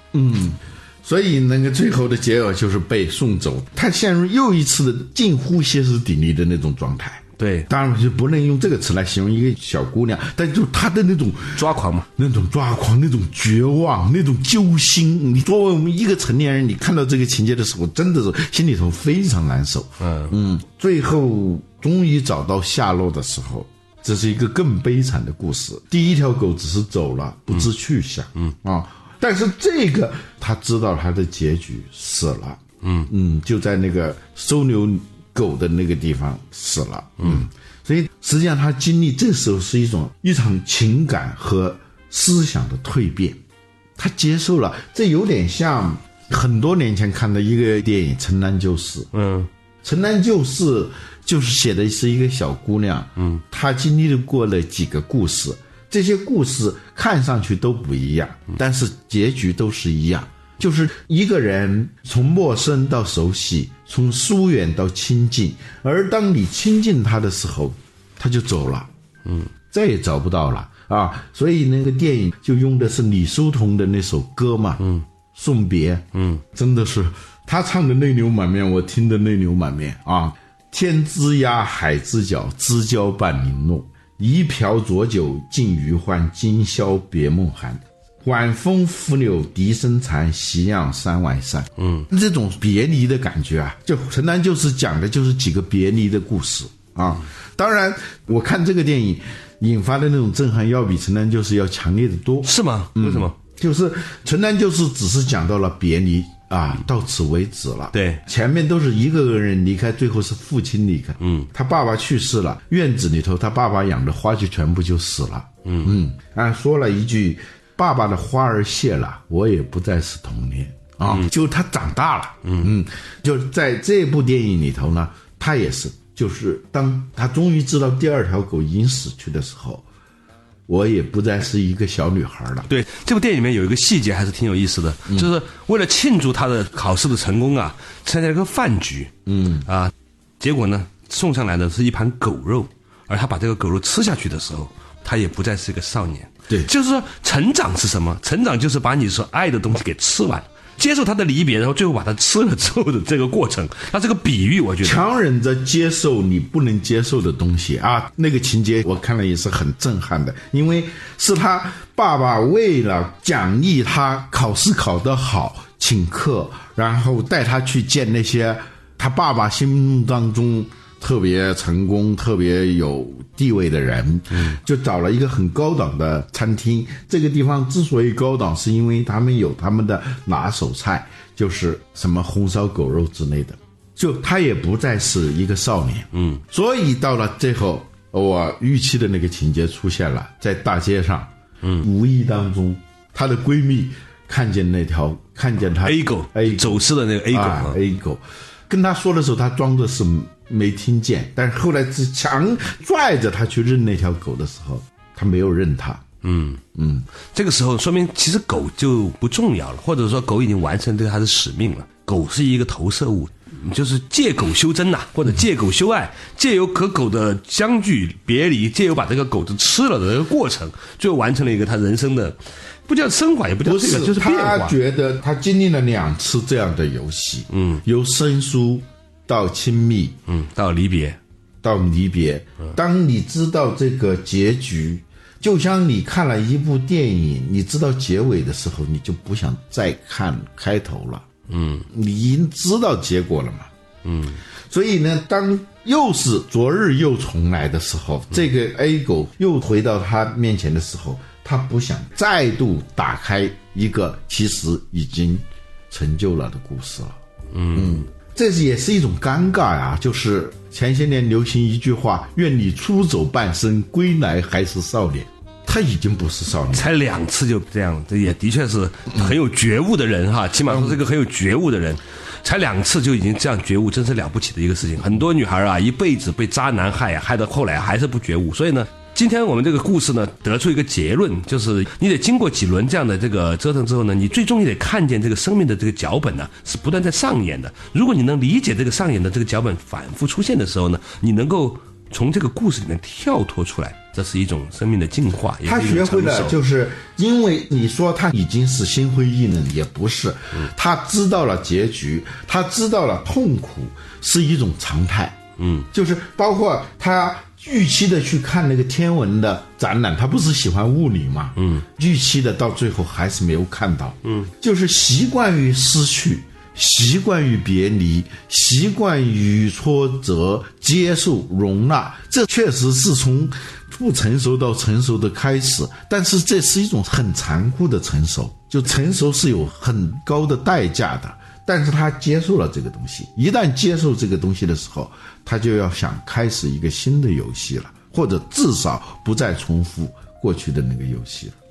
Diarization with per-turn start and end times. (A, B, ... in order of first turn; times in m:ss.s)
0:00.1-0:43.4 A
0:07.4-0:07.7 B
0:11.6-0:12.1 B
0:20.0-0:20.3 B
0:32.8-0:33.1 B
0:44.0-0:49.1 A
0:49.1-0:49.5 B
0:49.8-1:08.9 A
1:09.2-1:09.5 B
1:09.7-1:14.8 A
1:14.8-1:15.0 B
1:15.3-2:09.8 A
1:16.1-1:16.4 B
1:31.8-1:32.1 B
1:42.4-1:43.3 B
1:47.9-1:48.2 B
1:51.2-1:51.5 B
1:55.7-1:56.0 B
2:02.4-2:02.7 B
2:10.7-2:12.7 A
2:12.7-2:19.1 B
2:19.3-2:19.7 A
2:19.7-2:35.0 B
2:34.8-3:26.0 A
3:06.1-3:06.4 B
3:15.8-3:17.8 B
3:26.2-3:26.6 B
3:26.8-3:27.1 A
3:27.3-3:44.8 B
3:43.6-3:50.2 A
3:47.5-3:47.8 B
3:50.3-3:51.2 B
3:51.6-4:01.3 A
4:01.5-4:01.9 B
4:01.9-4:03.7 A
4:04.0-4:04.4 B
4:04.7-4:17.2 A
4:17.5-4:18.0 B
4:17.7-4:26.9 A
4:26.7-4:56.6 B
4:30.7-4:31.0 A
4:55.6-5:05.4 A
5:05.6-5:05.9 B
5:05.9-5:41.6 A
5:11.6-5:11.9 B
5:14.2-5:14.5 B